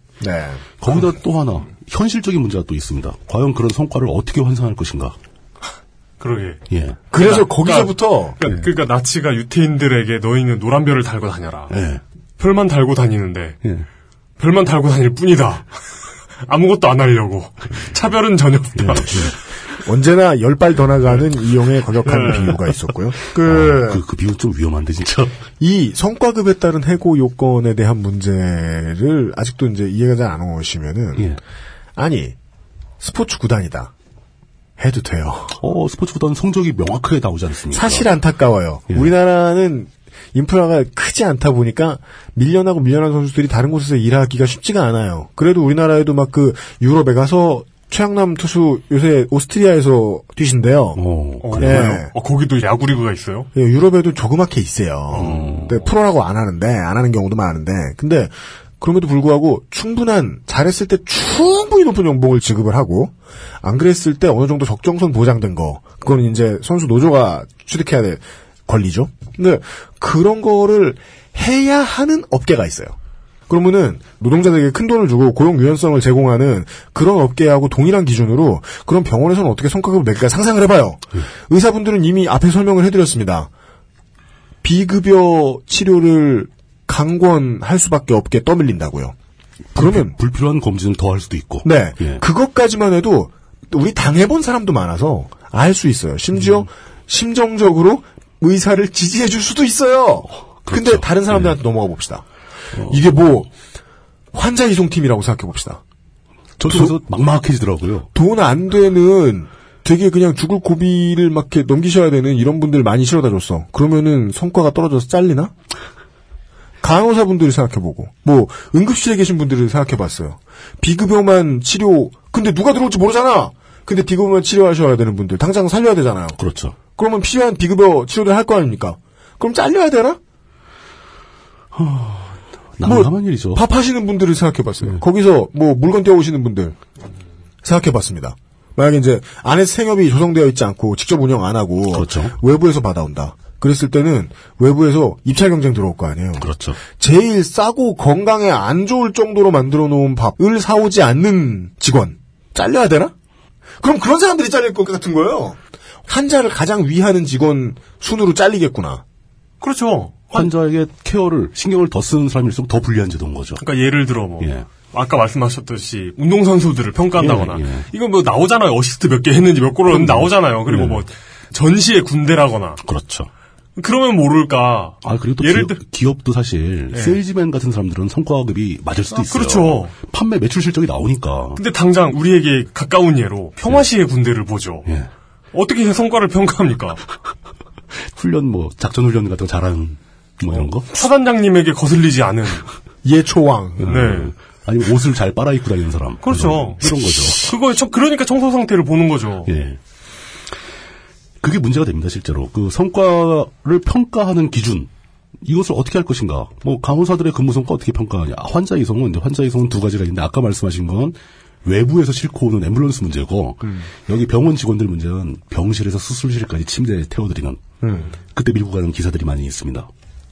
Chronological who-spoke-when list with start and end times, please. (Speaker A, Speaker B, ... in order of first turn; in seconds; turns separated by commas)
Speaker A: 0.2-0.6, Speaker B: 0.8-5.2, Speaker C: 6.2-6.6, Speaker B: 6.7-7.0, Speaker A: 7.1-8.4, Speaker C: 7.2-11.7, Speaker B: 11.7-12.0, Speaker C: 12.4-13.6, Speaker C: 14.4-15.7, Speaker C: 16.4-19.3, Speaker B: 18.8-19.3, Speaker A: 19.8-24.0, Speaker C: 22.1-22.6, Speaker B: 23.4-25.4, Speaker A: 25.6-31.3, Speaker A: 32.0-32.4, Speaker A: 33.0-33.9, Speaker A: 34.8-35.6, Speaker B: 35.6-38.1, Speaker A: 37.7-51.0, Speaker B: 51.0-52.0, Speaker C: 51.4-53.5, Speaker A: 51.6-52.1, Speaker A: 53.5-73.0, Speaker B: 55.1-55.8, Speaker A: 73.5-83.5, Speaker A: 84.6-89.2, Speaker B: 89.8-92.2, Speaker A: 89.8-90.2, Speaker A: 91.6-102.2, Speaker B: 96.4-96.7, Speaker B: 100.7-101.6, Speaker B: 102.8-103.0, Speaker A: 102.8-103.5, Speaker A: 104.3-105.8, Speaker B: 106.6-108.1, Speaker A: 106.7-107.0, Speaker A: 108.1-115.5, Speaker A: 116.8-126.4, Speaker B: 126.4-126.8, Speaker A: 127.0-130.2, Speaker B: 131.7-133.6, Speaker A: 132.8-136.8, Speaker A: 137.6-153.1, Speaker B: 141.9-142.3, Speaker B: 146.4-146.8, Speaker A: 153.8-159.0, Speaker C: 159.6-160.5, Speaker B: 160.3-163.6, Speaker C: 163.6-172.8, Speaker B: 164.4-164.7, Speaker B: 167.2-167.9, Speaker B: 169.9-171.0, Speaker B: 172.8-173.3, Speaker C: 173.8-175.8, Speaker B: 175.0-181.6, Speaker C: 176.9-177.2, Speaker C: 179.1-179.9, Speaker C: 181.6-184.9, Speaker C: 185.5-187.0, Speaker B: 188.1-190.9, Speaker C: 190.9-192.7, Speaker A: 193.0-193.9, Speaker B: 193.8-197.5, Speaker C: 193.8-194.3, Speaker C: 196.2-199.5, Speaker B: 199.5-199.8, Speaker B: 201.4-204.9, Speaker B: 205.4-217.6, Speaker A: 217.8-218.1, Speaker B: 218.3-219.9